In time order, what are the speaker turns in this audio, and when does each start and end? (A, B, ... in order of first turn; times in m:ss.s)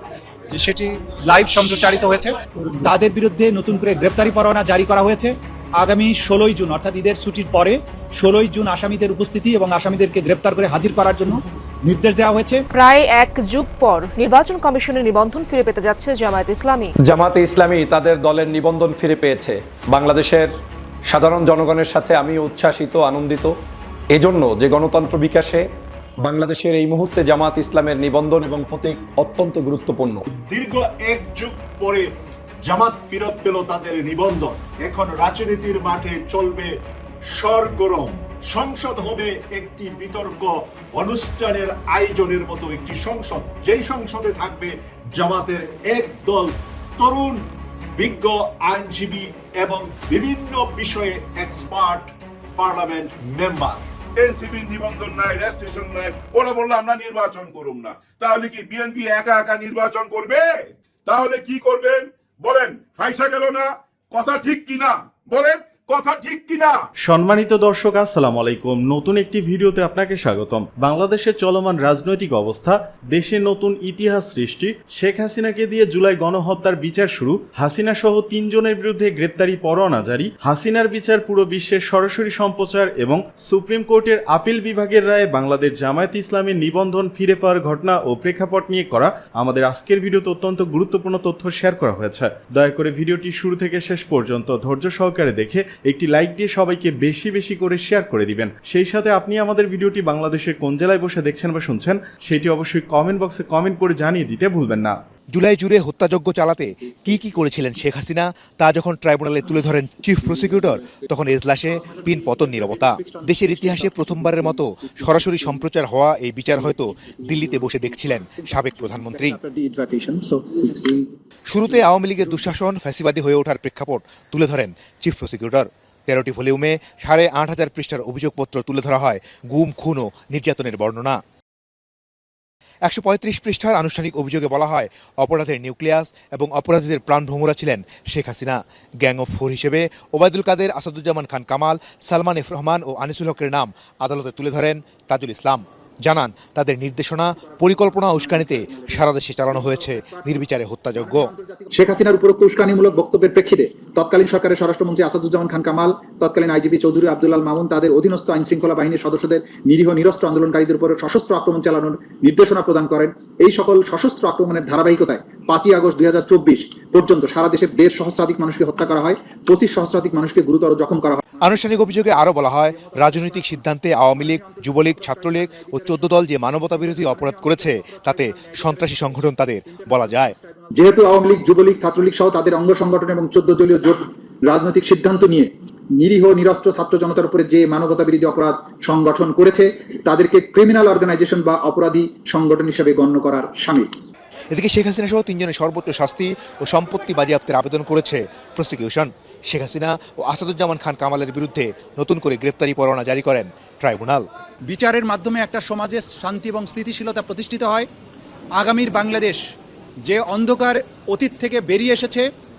0:00.5-0:02.3 A
0:03.0-0:11.3 A
0:11.9-0:12.6 A
0:12.7-0:16.9 B
0:17.0-0:20.5 C
0:21.1-0:23.5 C
0:24.1-0:25.6 C
0:26.2-0:30.3 C
0:30.4-0:32.1 D
0:32.6-0:36.7 D
0:37.3-0:47.4 D
0:48.0-0:53.8 D
0:54.2-1:00.5 E
1:01.1-1:06.8 E
1:07.0-1:45.0 F
1:45.3-1:59.4 G
1:50.4-1:55.6 H
1:56.6-2:01.1 H
2:01.5-2:11.2 G
2:01.6-2:02.5 H
2:12.9-2:31.3 G
2:27.4-3:13.9 H
2:51.4-3:00.4 G
3:14.5-3:24.2 G
3:24.7-3:27.9 A
3:28.6-3:29.4 A
3:30.0-3:32.2 A